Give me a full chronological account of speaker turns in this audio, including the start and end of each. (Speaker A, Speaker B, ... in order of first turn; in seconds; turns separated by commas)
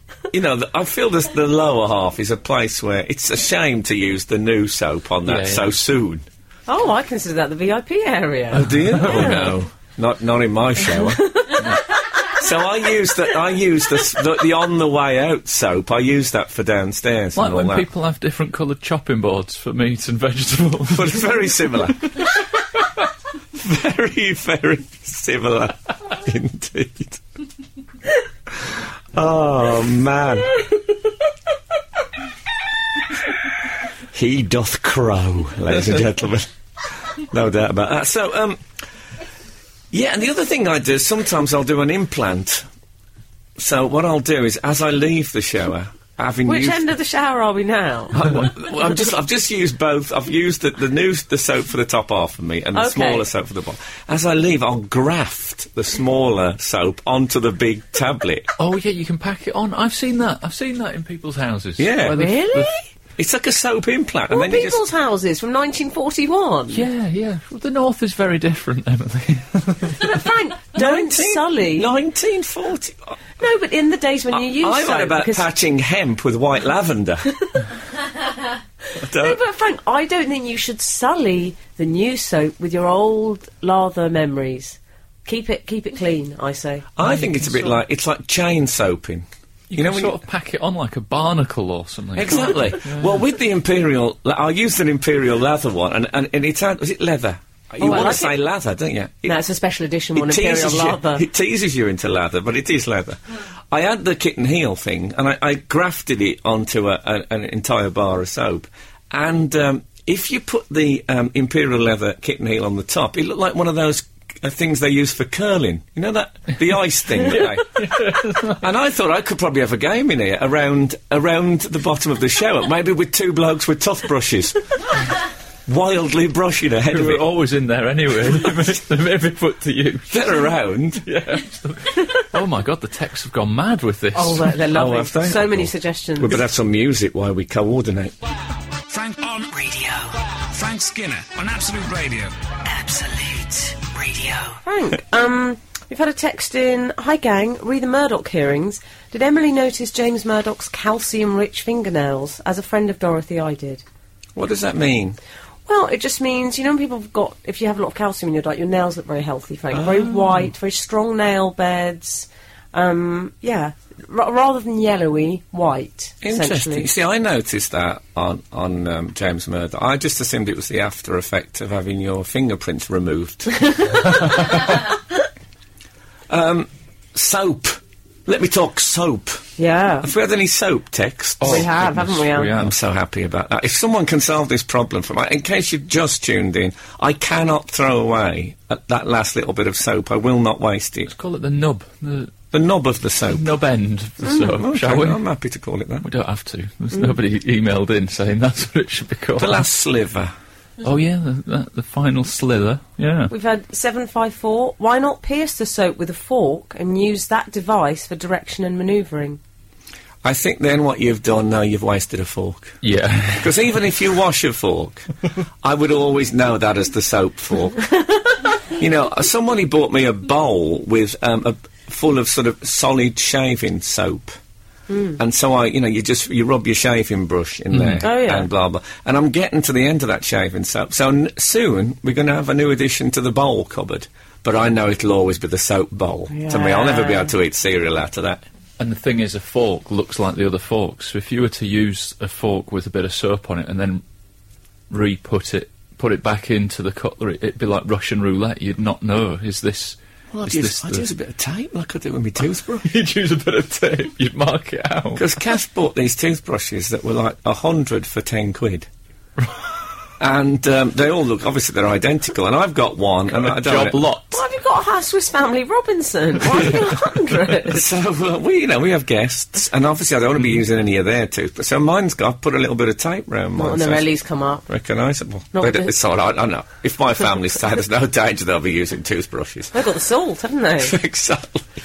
Speaker A: 0.3-6.3, Speaker B: 5.3-5.7, Speaker C: 6.7-9.5, Speaker A: 8.5-11.6, Speaker B: 9.0-9.5, Speaker C: 11.2-11.8, Speaker A: 12.2-17.9, Speaker B: 17.4-21.4, Speaker A: 20.9-22.1, Speaker A: 23.6-27.2, Speaker A: 28.5-30.6, Speaker A: 34.1-36.5, Speaker A: 37.0-38.6, Speaker A: 39.9-42.7, Speaker A: 43.6-46.9, Speaker C: 46.5-48.3, Speaker A: 48.1-58.5, Speaker C: 52.8-53.2, Speaker B: 58.6-62.7, Speaker A: 61.8-62.3, Speaker C: 62.1-62.8, Speaker A: 63.2-64.8, Speaker C: 64.3-66.8, Speaker B: 66.7-70.1, Speaker C: 69.9-71.9, Speaker A: 70.8-73.2, Speaker C: 73.4-75.5, Speaker A: 74.3-77.3, Speaker A: 79.0-79.4, Speaker C: 79.0-86.9, Speaker A: 87.0-90.2, Speaker B: 87.0-87.8, Speaker B: 89.7-93.2, Speaker A: 92.2-99.4, Speaker C: 97.8-98.4, Speaker C: 99.3-101.2, Speaker A: 100.2-103.2, Speaker A: 103.7-125.0, Speaker B: 117.8-118.6, Speaker A: 125.7-127.2, Speaker B: 126.9-130.2, Speaker A: 130.1-131.1, Speaker B: 131.1-134.6, Speaker C: 134.1-136.4, Speaker A: 134.7-138.2, Speaker D: 138.9-139.5, Speaker E: 139.5-140.3, Speaker D: 140.3-142.4, Speaker E: 142.7-144.6, Speaker C: 144.7-153.8, Speaker A: 154.4-155.2, Speaker C: 155.7-166.9, Speaker A: 159.8-160.1, Speaker A: 166.2-173.7, Speaker C: 173.7-174.1, Speaker A: 176.3-179.5, Speaker C: 179.6-180.1, Speaker A: 180.0-181.7, Speaker B: 181.4-182.7, Speaker C: 181.4-182.5, Speaker A: 182.5-191.1, Speaker B: 191.1-192.5, Speaker A: 192.5-193.5, Speaker B: 193.3-195.2, Speaker A: 194.4-196.1, Speaker B: 196.0-199.7, Speaker A: 199.4-200.3, Speaker B: 200.8-203.3, Speaker C: 203.3-209.4, Speaker A: 210.2-212.8, Speaker B: 212.8-213.7, Speaker A: 213.4-215.1, Speaker A: 215.6-217.9, Speaker A: 218.8-224.4, Speaker C: 224.9-225.2, Speaker A: 225.2-238.4, Speaker B: 227.7-228.0, Speaker C: 228.0-228.5, Speaker C: 236.3-237.3, Speaker B: 238.8-244.0, Speaker B: 244.9-251.1, Speaker A: 250.3-252.9, Speaker B: 252.8-255.3, Speaker A: 255.2-258.9, Speaker A: 260.2-264.1, Speaker B: 263.4-264.4, Speaker C: 264.3-267.8, Speaker A: 267.6-274.1, Speaker C: 273.6-274.7, Speaker A: 274.7-279.8, Speaker C: 275.5-275.9, Speaker C: 279.7-281.0, Speaker A: 280.8-281.7